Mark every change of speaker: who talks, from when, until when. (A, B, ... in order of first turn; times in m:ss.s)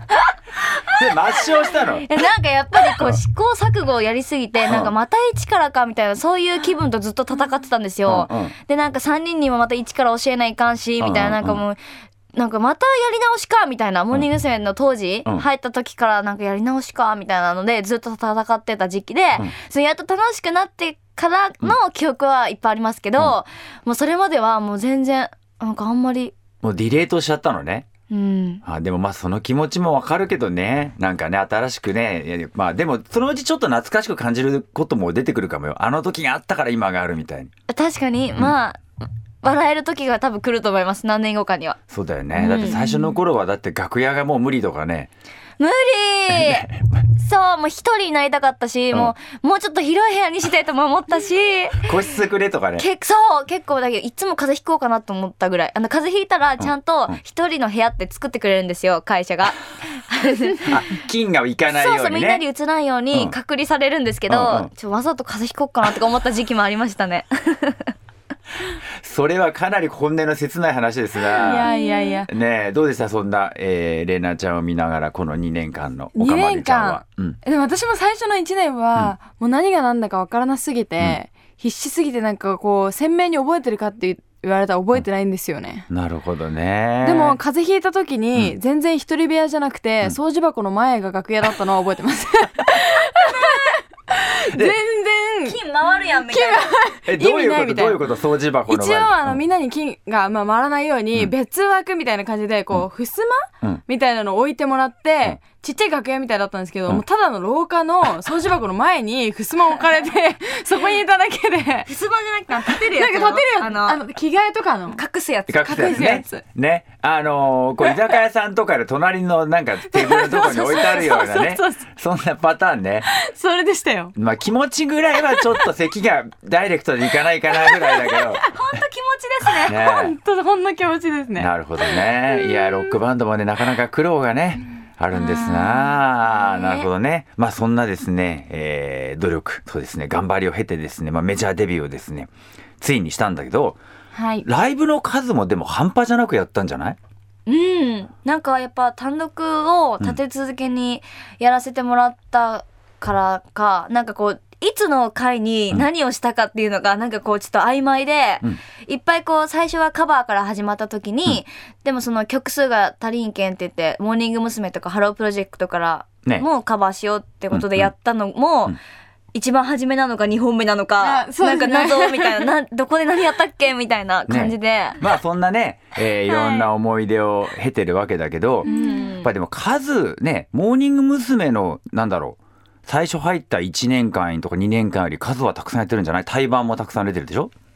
0:00.8-0:01.4 A
0:00.9-0:02.1 B
0:02.0-0:11.8 A
0:04.7-0:04.9 B
0:08.1-0:08.6 B
0:11.0-0:11.6 B
0:12.3-0:26.4 A
0:26.6-0:27.9 B
0:28.1-0:28.6 A
0:28.6-0:37.5 B
0:37.7-0:41.8 A
0:41.9-0:45.1 B
0:42.4-0:42.8 A
0:42.5-0:43.1 C
0:45.6-0:46.6 A
0:46.3-0:47.0 B
0:47.2-0:51.9 A
0:51.8-0:52.9 B
0:52.8-1:00.8 A
0:56.6-0:57.2 B
1:00.7-1:02.4 B
1:01.7-1:07.9 A
1:04.3-1:04.7 B
1:09.0-1:11.7 B
1:11.3-1:12.3 C
1:11.7-1:12.2 A
1:12.3-1:17.4 B
1:16.2-1:25.9 C
1:25.9-1:27.4 B
1:27.0-1:35.6 C
1:35.4-1:36.7 A
1:36.1-1:38.0 C
1:37.1-1:39.4 B
1:38.7-1:51.9 C
1:51.9-1:54.0 A
1:52.5-1:55.0 C
1:54.9-1:56.2 A
1:55.5-2:03.1 B
1:55.6-1:56.4 C
1:59.9-2:01.9 C
2:03.0-2:04.1 C
2:04.2-2:08.4 B
2:07.7-2:08.0 C
2:08.4-2:09.8 A
2:09.7-2:10.2 B
2:09.7-2:13.0 C
2:11.4-2:23.8 B
2:15.2-2:15.7 C
2:15.4-2:15.7 A
2:16.4-2:16.8 A
2:24.1-2:24.4 C
2:24.4-2:27.0 B
2:27.5-2:48.8 A
2:47.5-2:47.9 B
2:49.3-2:55.0 A
2:51.0-2:52.5 C
2:54.3-2:58.7 B
2:58.6-2:59.2 C
2:58.6-2:59.3 A
2:59.2-3:07.5 B